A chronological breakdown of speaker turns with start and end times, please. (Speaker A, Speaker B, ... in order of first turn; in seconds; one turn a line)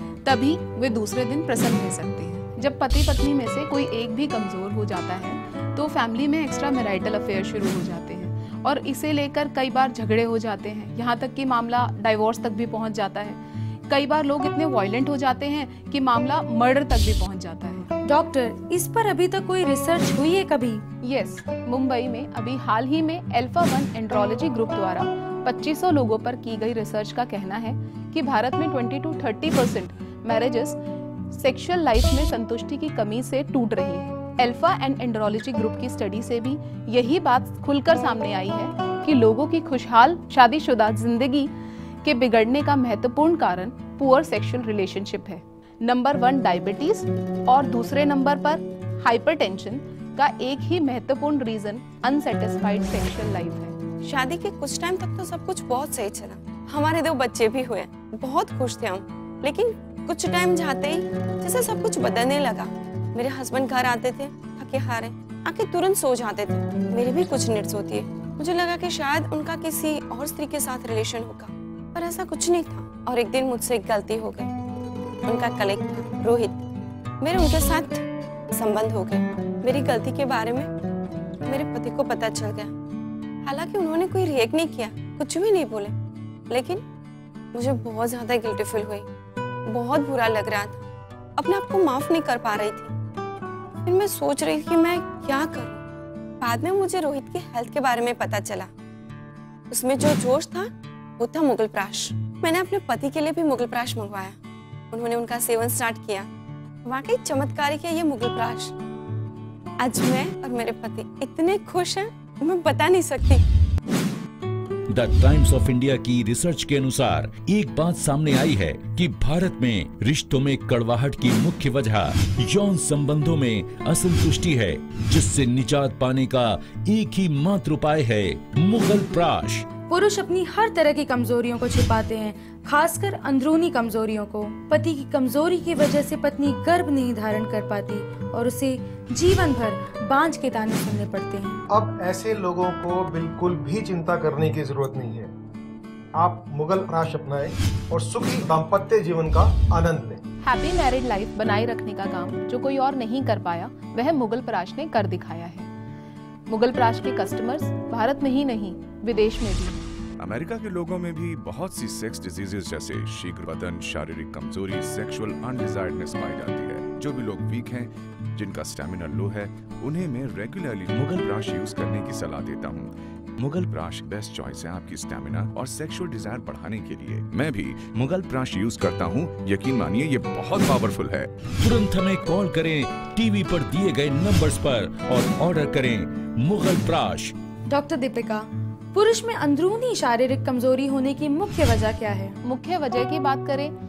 Speaker A: 0.2-17.9
Speaker B: 18.1-20.8
Speaker A: 21.0-30.8
Speaker A: 31.3-41.5
Speaker A: 42.0-53.8
Speaker C: 54.0-74.5
Speaker C: 75.2-76.6
Speaker C: 77.2-78.0
Speaker C: 78.5-80.7
Speaker C: 81.5-82.7
Speaker C: 83.4-85.9
Speaker C: 86.5-86.8
Speaker C: 87.5-89.0
Speaker C: 89.7-90.8
Speaker C: 91.4-92.9
Speaker C: 93.8-95.8
Speaker C: 96.4-98.7
Speaker C: 99.7-100.7
Speaker C: 101.2-104.3
Speaker C: 104.9-106.3
Speaker C: 106.8-108.7
Speaker C: 109.8-113.4
Speaker D: 114.9-129.7
Speaker B: 129.9-141.6
Speaker E: 141.7-145.3
Speaker E: 146.1-150.2
Speaker A: 150.4-155.7
Speaker A: 156.5-159.8
Speaker F: 160.2-181.3
Speaker D: 181.6-187.3
Speaker B: 187.7-192.4
Speaker A: 192.4-193.7